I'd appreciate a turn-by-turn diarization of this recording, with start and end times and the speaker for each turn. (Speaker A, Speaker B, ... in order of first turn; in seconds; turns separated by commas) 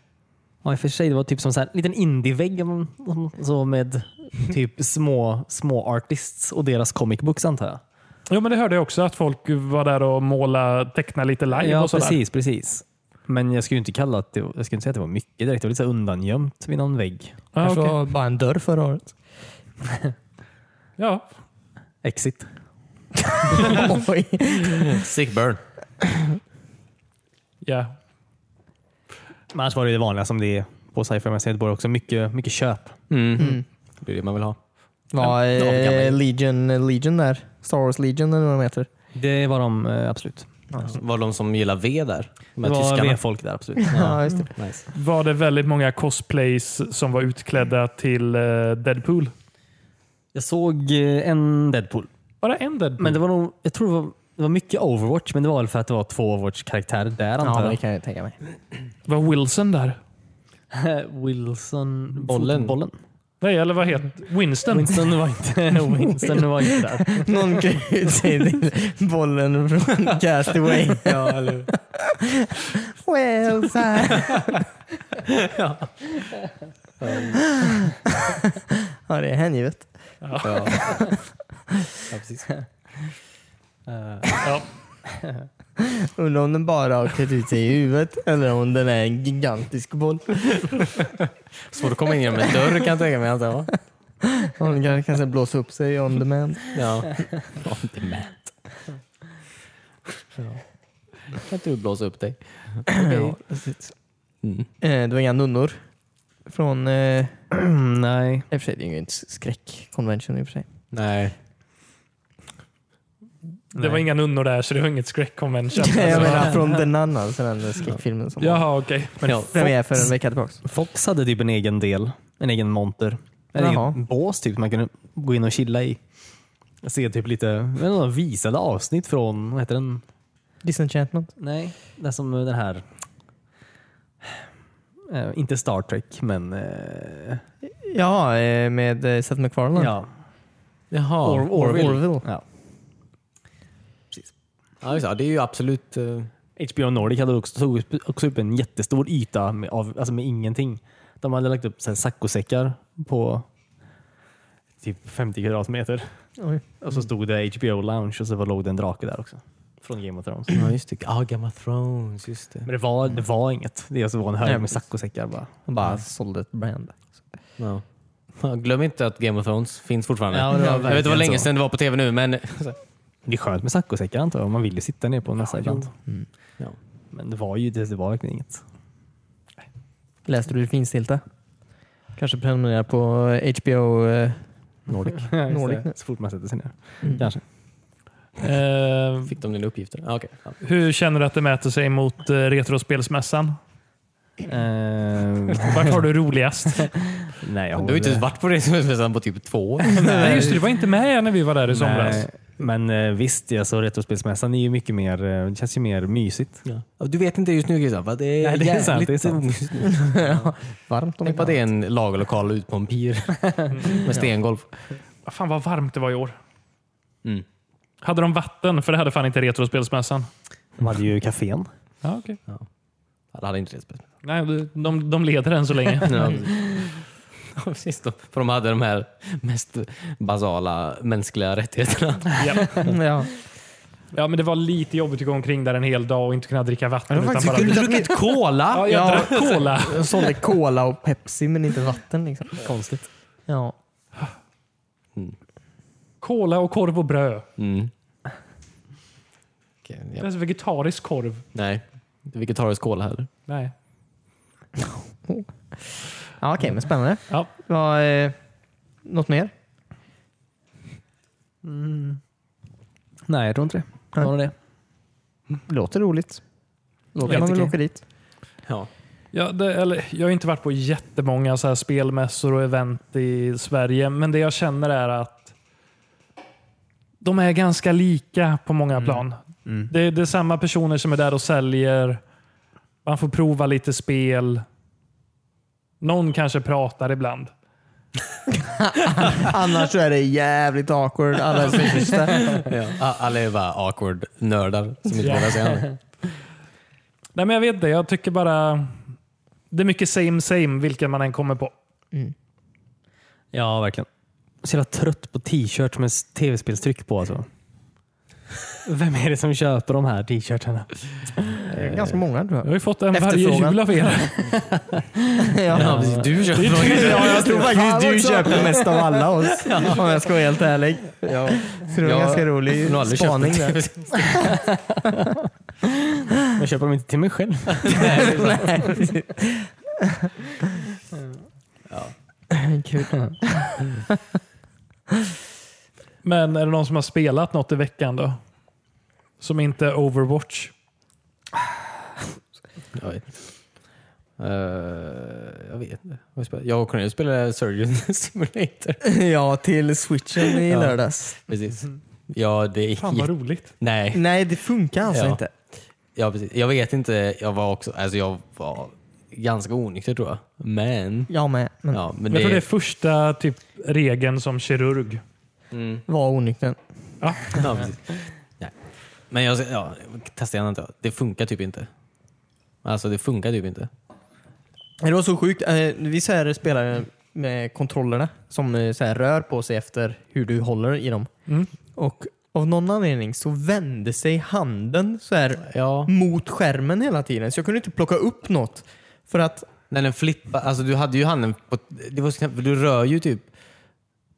Speaker A: 0.6-7.8, Speaker B: 8.3-12.2, Speaker A: 11.6-17.4, Speaker B: 17.5-18.0, Speaker C: 17.6-19.1, Speaker B: 21.0-21.3, Speaker A: 22.0-22.5, Speaker C: 23.4-25.0, Speaker D: 24.7-25.6, Speaker B: 27.6-27.9, Speaker A: 29.5-33.0, Speaker D: 33.1-34.6, Speaker C: 33.4-33.6, Speaker C: 35.1-38.9, Speaker D: 35.2-36.2, Speaker A: 39.1-40.5, Speaker C: 40.7-41.0, Speaker D: 40.8-43.2, Speaker A: 42.6-44.1, Speaker D: 43.9-44.9, Speaker C: 43.9-44.5, Speaker B: 44.9-49.3, Speaker A: 50.3-52.1, Speaker B: 52.4-53.2, Speaker A: 53.0-57.8, Speaker C: 57.4-58.4, Speaker B: 59.1-60.0, Speaker A: 60.7-63.0, Speaker D: 62.2-62.8, Speaker B: 63.4-65.2, Speaker A: 64.7-67.6, Speaker C: 67.1-74.6, Speaker D: 71.0-71.7, Speaker D: 75.2-76.1, Speaker D: 77.0-77.6, Speaker C: 77.5-78.5, Speaker C: 79.0-79.9, Speaker B: 80.2-81.1, Speaker D: 80.4-80.8, Speaker C: 80.7-81.1, Speaker D: 82.1-82.6, Speaker A: 83.9-84.2, Speaker C: 85.8-90.9, Speaker D: 91.7-93.8, Speaker C: 94.3-96.8, Speaker D: 96.7-98.5, Speaker D: 100.4-100.6, Speaker D: 101.3-103.3, Speaker C: 102.9-103.9, Speaker D: 104.4-104.7, Speaker C: 104.8-105.8, Speaker C: 106.5-107.4, Speaker A: 107.5-108.5, Speaker C: 108.5-110.7, Speaker D: 110.9-111.3, Speaker B: 113.7-116.6, Speaker A: 113.8-114.1, Speaker C: 115.8-118.7, Speaker D: 116.1-116.5, Speaker B: 118.4-119.3, Speaker C: 119.2-120.6, Speaker D: 119.2-119.7, Speaker A: 120.6-126.0, Speaker C: 123.6-124.0, Speaker A: 126.8-130.0, Speaker C: 130.6-131.3, Speaker A: 131.4-132.8, Speaker A: 135.1-137.4, Speaker C: 137.6-139.9, Speaker A: 139.8-140.1, Speaker D: 140.9-142.0, Speaker A: 141.2-142.4, Speaker C: 141.5-142.3, Speaker D: 144.8-146.3, Speaker A: 146.6-153.5, Speaker A: 154.8-156.1, Speaker C: 156.4-156.6, Speaker A: 156.8-160.7, Speaker D: 160.5-162.7, Speaker A: 162.7-165.5, Speaker C: 164.4-164.8, Speaker C: 165.7-167.2, Speaker D: 168.4-172.8, Speaker A: 170.3-171.5, Speaker C: 170.5-171.0, Speaker A: 173.3-175.9, Speaker D: 175.5-175.9, Speaker A: 177.1-178.6, Speaker C: 180.3-181.2, Speaker C: 182.2-184.5, Speaker D: 184.9-185.4, Speaker A: 185.2-187.4, Speaker C: 185.5-185.9, Speaker C: 187.0-187.3, Speaker B: 188.4-189.3, Speaker D: 189.3-190.6, Speaker B: 190.6-193.6, Speaker A: 194.5-196.0, Speaker B: 195.6-197.3, Speaker A: 197.3-198.3, Speaker D: 197.8-200.4, Speaker C: 200.0-200.6, Speaker B: 200.1-202.3, Speaker A: 200.1-200.5, Speaker A: 201.7-206.6, Speaker D: 206.7-210.3, Speaker A: 208.4-209.6, Speaker C: 210.0-211.6, Speaker D: 211.2-214.7, Speaker B: 213.7-214.0, Speaker B: 215.3-216.4, Speaker B: 218.0-220.3, Speaker A: 220.8-221.7, Speaker B: 222.0-222.4, Speaker D: 223.3-224.0, Speaker B: 224.2-226.4, Speaker D: 226.0-232.9, Speaker B: 232.4-232.9, Speaker C: 232.8-233.3, Speaker B: 234.1-238.1, Speaker C: 237.1-242.6, Speaker D: 237.4-239.7, Speaker B: 238.7-240.2, Speaker A: 242.6-243.1, Speaker C: 243.5-243.8, Speaker B: 246.2-247.5, Speaker D: 247.6-247.9, Speaker D: 249.9-250.3, Speaker B: 250.2-251.4, Speaker D: 251.5-253.3, Speaker B: 253.5-253.7, Speaker C: 256.2-258.4, Speaker C: 259.1-259.5, Speaker A: 261.6-262.2, Speaker A: 263.3-264.5, Speaker C: 265.7-266.4, Speaker C: 267.1-268.0, Speaker A: 267.2-267.7, Speaker B: 269.3-275.5, Speaker B: 277.2-282.2, Speaker B: 283.1-284.6, Speaker B: 286.0-287.5, Speaker C: 288.6-292.6, Speaker D: 291.6-295.9, Speaker B: 295.2-295.7, Speaker B: 297.4-299.0, Speaker B: 299.7-301.7, Speaker A: 303.5-304.1, Speaker A: 304.6-307.5, Speaker A: 308.9-311.7, Speaker C: 311.7-313.8, Speaker D: 311.7-312.1, Speaker B: 312.6-314.6, Speaker A: 314.6-315.0, Speaker C: 315.4-323.8, Speaker A: 315.7-316.3, Speaker D: 315.7-318.5, Speaker B: 316.5-317.7, Speaker A: 317.8-319.1, Speaker D: 319.7-320.1, Speaker D: 322.0-324.5, Speaker A: 324.7-325.0, Speaker A: 326.4-328.4, Speaker D: 327.8-329.0, Speaker C: 328.1-329.7, Speaker C: 332.5-334.2, Speaker B: 336.2-338.4, Speaker B: 339.4-340.7, Speaker D: 342.9-343.5, Speaker D: 344.4-349.0, Speaker C: 349.0-351.4, Speaker D: 350.6-354.2, Speaker B: 353.0-353.7, Speaker C: 354.1-355.5, Speaker D: 355.1-355.4, Speaker D: 356.1-361.3, Speaker C: 361.3-362.0, Speaker D: 361.9-362.6, Speaker B: 362.3-365.2, Speaker D: 365.7-366.0, Speaker C: 366.1-366.8, Speaker B: 367.2-367.9, Speaker D: 367.6-368.7, Speaker D: 369.3-371.9, Speaker D: 372.8-373.9, Speaker C: 375.0-381.3, Speaker C: 381.9-389.7, Speaker D: 385.6-386.1, Speaker D: 389.9-393.5